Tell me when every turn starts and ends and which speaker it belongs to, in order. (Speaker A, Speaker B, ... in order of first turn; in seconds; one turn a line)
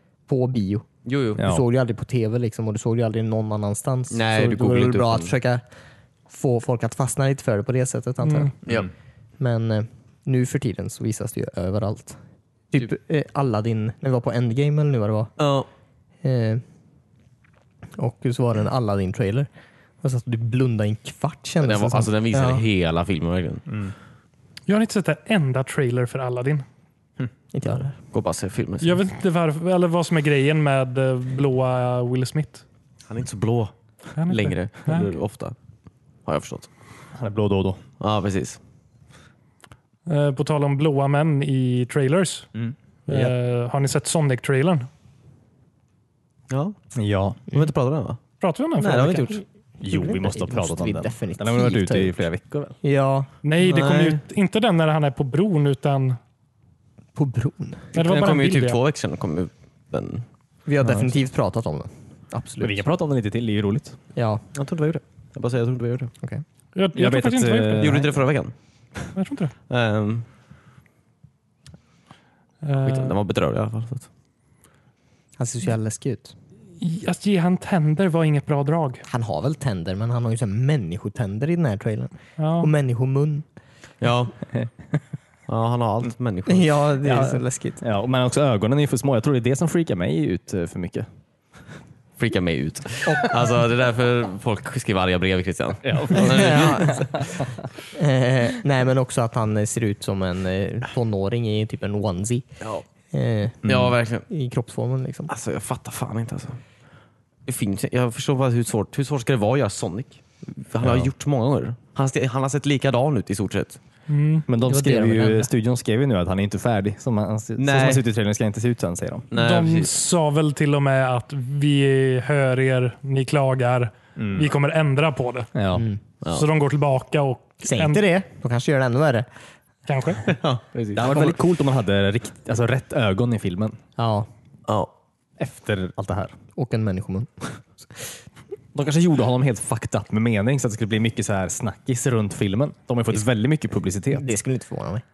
Speaker A: 0.3-5.6
Speaker B: 1.1-1.4
Speaker C: 1.4-1.6
Speaker B: 4.1-5.3
Speaker A: 6.3-8.6
Speaker D: 8.2-8.5
Speaker B: 8.7-8.9
Speaker A: 9.4-12.2
Speaker A: 12.7-15.3
Speaker B: 15.4-15.7
Speaker A: 16.2-16.6
Speaker A: 18.0-19.5
Speaker A: 20.0-22.6
Speaker B: 21.6-23.6
Speaker C: 23.7-23.9
Speaker D: 24.7-26.6
Speaker A: 27.5-27.9
Speaker B: 28.1-29.0
Speaker D: 28.8-32.6
Speaker B: 33.1-35.6
Speaker D: 34.2-35.1
Speaker B: 36.3-36.7
Speaker C: 37.1-37.8
Speaker B: 38.0-38.6
Speaker D: 40.1-42.5
Speaker C: 42.5-43.3
Speaker D: 43.1-44.9
Speaker B: 46.5-46.8
Speaker C: 47.0-47.4
Speaker B: 47.5-48.2
Speaker D: 48.4-49.4
Speaker B: 48.8-49.4
Speaker C: 49.8-52.8
Speaker A: 49.9-52.2
Speaker A: 52.8-53.3
Speaker D: 53.4-56.2
Speaker B: 53.6-54.2
Speaker A: 57.1-57.9
Speaker D: 57.9-58.8
Speaker B: 58.0-60.3
Speaker A: 60.7-62.9
Speaker C: 60.8-61.1
Speaker C: 62.6-64.0
Speaker A: 64.2-64.4
Speaker B: 64.5-66.1
Speaker D: 66.8-68.0
Speaker C: 67.0-68.2
Speaker B: 67.8-68.5
Speaker D: 69.2-69.5
Speaker B: 69.7-70.3
Speaker D: 72.6-73.2
Speaker B: 72.8-74.1
Speaker A: 75.4-76.3
Speaker D: 76.8-79.0
Speaker A: 79.1-83.5
Speaker D: 82.4-82.7
Speaker B: 84.0-84.3
Speaker B: 85.5-86.8
Speaker A: 86.5-87.8
Speaker C: 87.0-91.1
Speaker B: 92.2-97.2
Speaker C: 95.8-97.2
Speaker A: 96.1-97.2
Speaker A: 97.9-102.5
Speaker A: 103.1-103.6
Speaker C: 103.6-103.9
Speaker B: 103.6-104.3
Speaker A: 104.3-105.3
Speaker B: 105.3-106.6
Speaker B: 107.5-113.8
Speaker C: 110.8-111.1
Speaker D: 114.1-114.5
Speaker C: 114.5-119.3
Speaker A: 114.6-115.5
Speaker B: 117.6-118.0
Speaker B: 119.3-119.9
Speaker D: 119.3-125.5
Speaker C: 124.2-124.5
Speaker C: 125.5-125.9
Speaker A: 125.7-126.0
Speaker D: 126.3-128.0
Speaker A: 127.6-129.3
Speaker D: 129.9-130.3
Speaker B: 130.3-131.4
Speaker C: 130.9-133.8
Speaker A: 134.0-134.3
Speaker C: 135.4-136.4
Speaker A: 136.6-138.1
Speaker C: 138.8-144.3
Speaker A: 144.1-145.0